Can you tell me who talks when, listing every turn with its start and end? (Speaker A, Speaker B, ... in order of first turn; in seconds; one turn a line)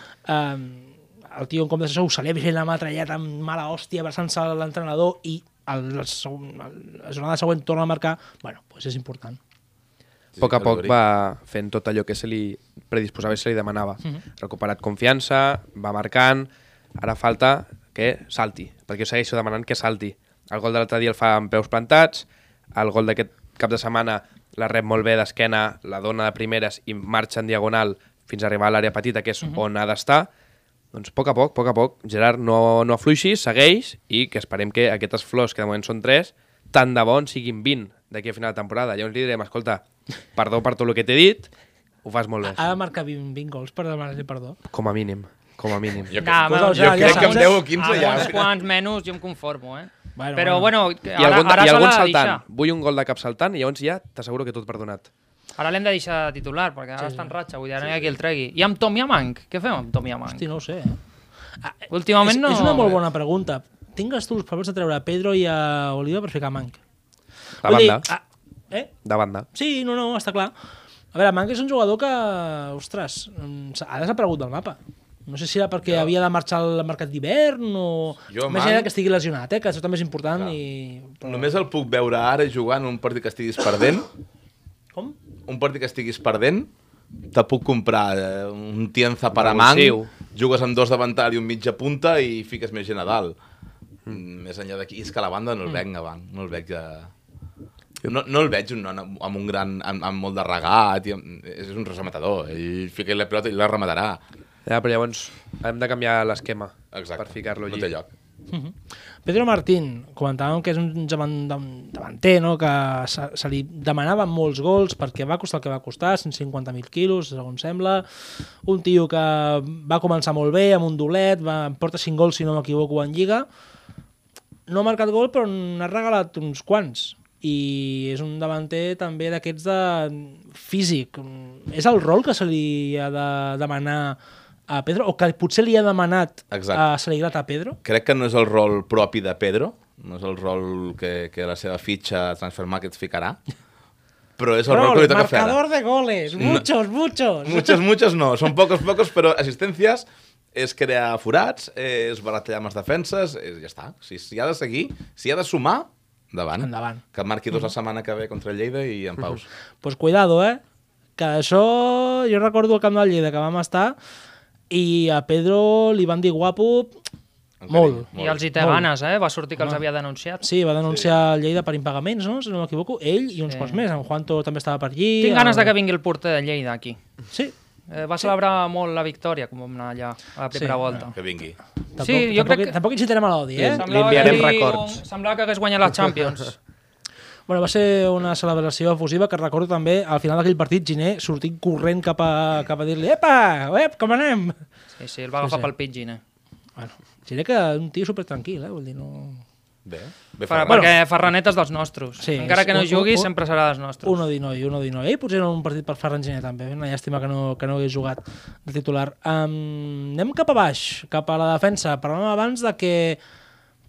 Speaker A: 0.2-9.4
Speaker B: 10.3-11.0
Speaker C: 10.4-30.3
Speaker C: 30.9-39.8
Speaker C: 40.4-41.5
Speaker C: 42.0-42.7
Speaker A: 42.4-44.6
Speaker C: 44.7-46.1
Speaker B: 46.1-48.5
Speaker D: 46.2-52.4
Speaker A: 46.4-47.7
Speaker A: 50.2-50.7
Speaker C: 51.2-55.1
Speaker D: 55.6-60.5
Speaker A: 57.0-57.3
Speaker B: 57.8-58.1
Speaker A: 60.3-61.0
Speaker A: 61.6-66.8
Speaker D: 61.9-63.0
Speaker C: 67.6-68.1
Speaker A: 67.6-68.9
Speaker C: 69.0-69.5
Speaker A: 69.5-70.5
Speaker A: 71.1-81.5
Speaker B: 75.9-76.1
Speaker B: 78.3-78.9
Speaker B: 81.2-84.1
Speaker B: 85.5-86.7
Speaker B: 87.3-93.4
Speaker C: 89.4-90.1
Speaker B: 94.1-97.1
Speaker B: 98.0-104.2
Speaker C: 104.7-107.9
Speaker B: 106.9-108.1
Speaker A: 108.5-118.1
Speaker A: 118.6-123.5
Speaker A: 124.7-134.2
Speaker A: 134.7-137.8
Speaker B: 136.5-136.9
Speaker B: 137.8-143.4
Speaker B: 144.4-145.6
Speaker A: 144.7-147.8
Speaker B: 146.3-146.7
Speaker B: 147.4-159.5
Speaker A: 156.6-157.0
Speaker A: 159.8-160.6
Speaker A: 161.2-164.0
Speaker A: 164.7-167.0
Speaker B: 167.6-168.5
Speaker A: 167.7-168.9
Speaker D: 168.2-170.4
Speaker A: 170.4-175.7
Speaker B: 170.9-171.1
Speaker D: 173.5-173.8
Speaker D: 175.2-177.0
Speaker D: 177.9-181.2
Speaker A: 180.5-181.1
Speaker B: 181.1-181.6
Speaker A: 182.0-184.4
Speaker D: 182.0-182.8
Speaker C: 183.6-185.0
Speaker D: 183.8-186.6
Speaker A: 187.5-194.6
Speaker D: 195.0-196.2
Speaker A: 195.4-195.7
Speaker A: 196.8-199.4
Speaker B: 199.8-200.9
Speaker D: 200.5-204.2
Speaker A: 200.7-200.9
Speaker A: 202.2-203.3
Speaker A: 204.0-213.2